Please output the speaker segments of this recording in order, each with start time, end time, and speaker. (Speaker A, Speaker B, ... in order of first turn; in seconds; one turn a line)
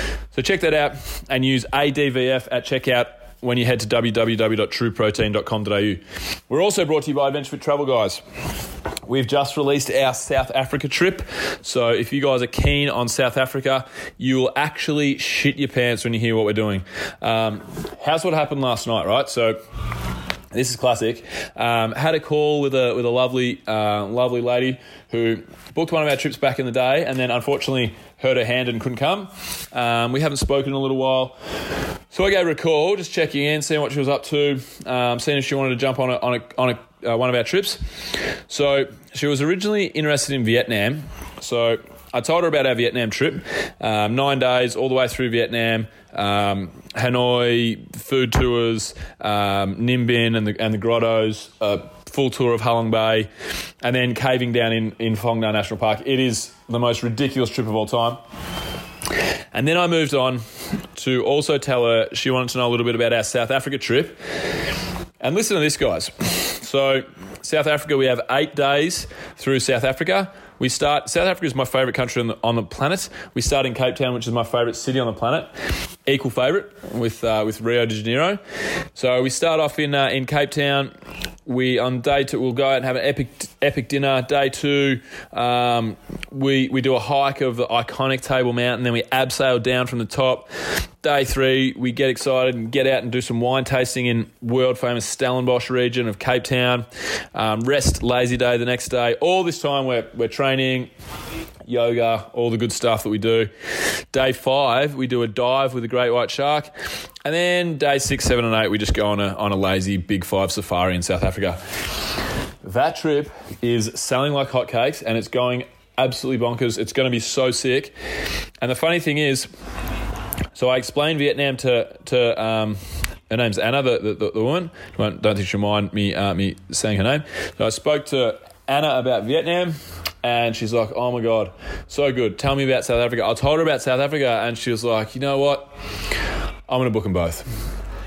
Speaker A: 0.3-8.2
Speaker A: 9.1-19.6
Speaker A: 20.5-31.4
Speaker A: 32.1-37.8
Speaker A: 38.5-53.3
Speaker A: 53.8-58.2
Speaker A: 59.5-60.4
Speaker A: 60.9-64.2
Speaker A: 65.2-75.5
Speaker A: 76.0-78.4
Speaker A: 78.9-80.9
Speaker A: 81.5-90.5
Speaker A: 91.0-100.9
Speaker A: 101.7-103.5
Speaker A: 104.1-106.7
Speaker A: 107.2-111.6
Speaker A: 112.6-117.9
Speaker A: 118.6-119.5
Speaker A: 120.5-122.8
Speaker A: 123.3-135.7
Speaker A: 136.7-137.4